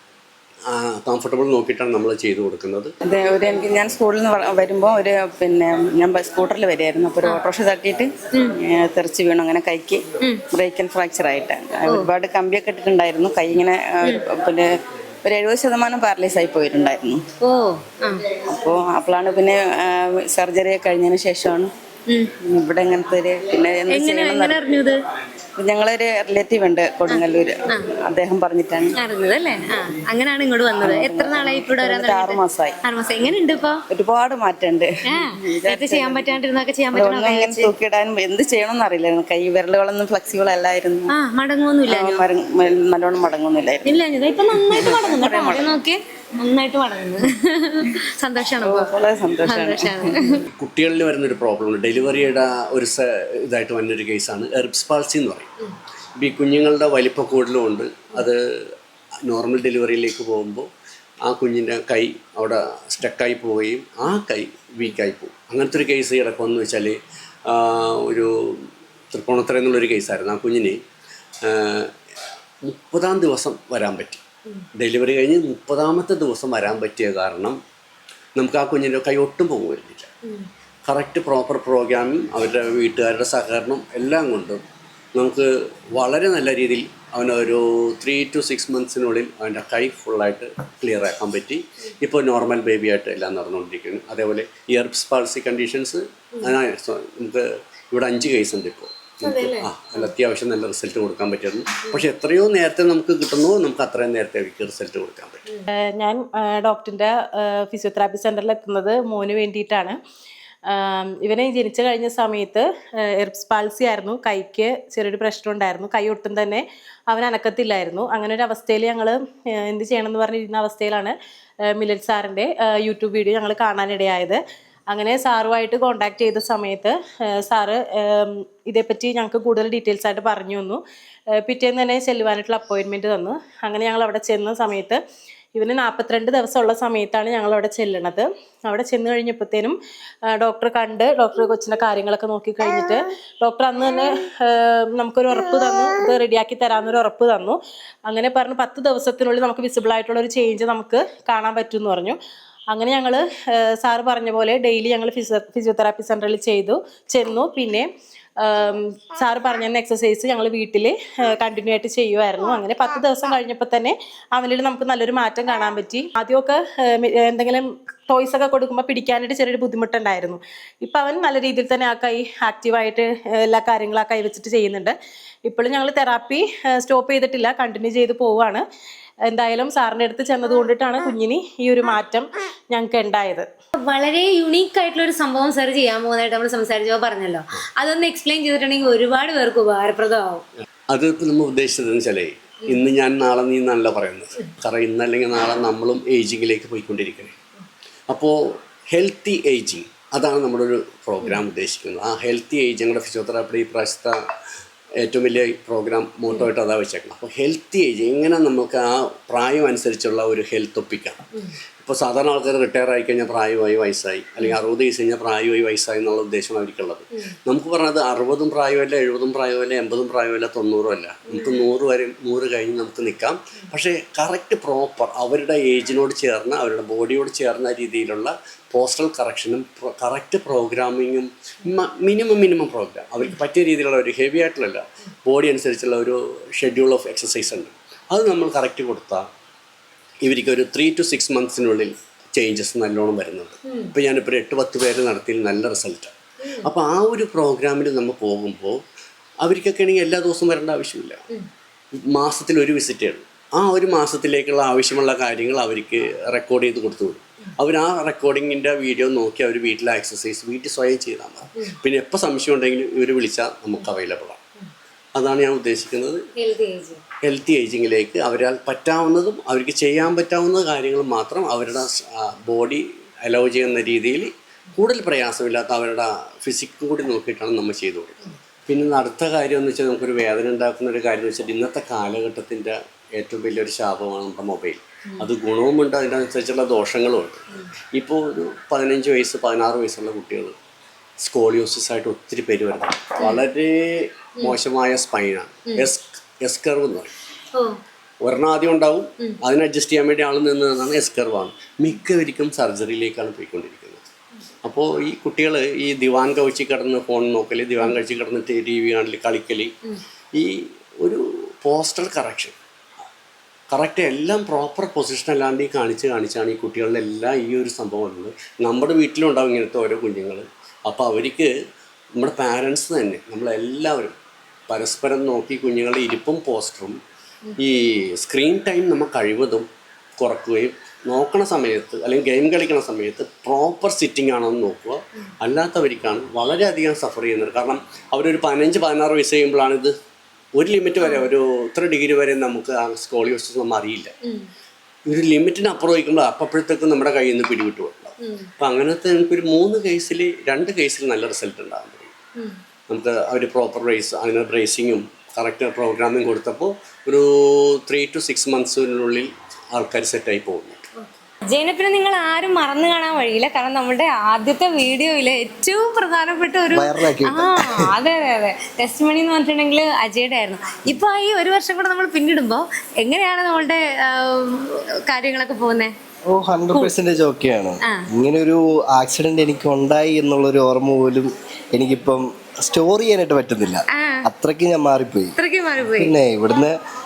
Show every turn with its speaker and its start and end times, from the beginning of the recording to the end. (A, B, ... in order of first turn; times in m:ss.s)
0:00.7-0:02.9 A
0:03.0-0:10.0 B
0:10.6-0:14.7 B
0:15.2-0:17.2 B
0:17.4-0:18.2 C
0:18.5-0:21.7 B
0:22.4-0:24.6 B
0:23.9-0:25.0 C
0:25.6-0:28.9 B
0:27.1-0:27.8 C
0:29.0-0:33.8 C
0:30.8-0:32.8 B
0:33.9-0:36.4 B
0:35.0-0:37.7 C
0:36.9-0:41.1 B
0:41.1-0:42.2 C
0:41.9-0:44.0 B
0:43.8-0:48.9 C
0:44.5-0:45.7 B
0:48.6-0:50.3 B
0:49.4-0:50.3 C
0:50.5-0:55.5 A
0:56.2-0:58.4 A
0:59.2-1:00.7 A
1:01.3-1:10.8 A
1:11.4-1:11.9 A
1:12.6-1:14.2 A
1:14.7-1:17.6 A
1:18.4-1:20.1 A
1:20.9-1:24.6 A
1:25.1-1:45.4 A
1:39.2-1:40.1 C
1:45.7-1:50.0 D
1:50.7-2:01.1 D
2:01.6-2:10.8 D
2:11.3-2:15.0 D
2:15.6-2:19.8 D
2:20.3-2:32.2 D
2:32.7-2:37.9 D
2:38.4-2:54.9 D
2:55.4-2:58.6 D
2:59.3-3:03.5 D
3:03.8-3:10.4 C
3:10.9-3:17.4 A
3:18.1-3:18.4 A
3:18.9-3:24.2 A
3:25.0-3:31.2 A
3:31.8-3:59.3 A
3:41.3-3:41.6 C
4:00.2-4:06.1 A
4:03.7-4:03.9 C
4:06.4-4:06.7 C
4:06.6-4:08.8 A
4:09.4-4:11.2 A
4:12.0-4:24.4 A
4:25.2-4:26.2 A
4:26.4-4:27.0 C
4:27.2-4:47.4 A
4:47.9-4:50.5 A
4:51.2-4:57.1 A
4:58.2-5:04.0 A
5:04.6-5:09.7 A
5:10.3-5:12.5 A
5:13.7-5:21.5 A
5:22.2-5:24.1 A
5:24.7-5:27.0 A
5:27.6-5:29.7 A
5:30.2-5:39.9 A
5:40.6-5:44.1 A
5:41.0-5:41.3 C
5:45.1-5:52.1 A
5:48.2-5:48.5 C
5:52.9-6:00.9 A
6:01.0-6:15.9 C
6:06.7-6:07.9 E
6:16.3-6:25.3 E
6:23.9-6:24.2 C
6:25.4-6:26.1 C
6:25.8-6:26.8 E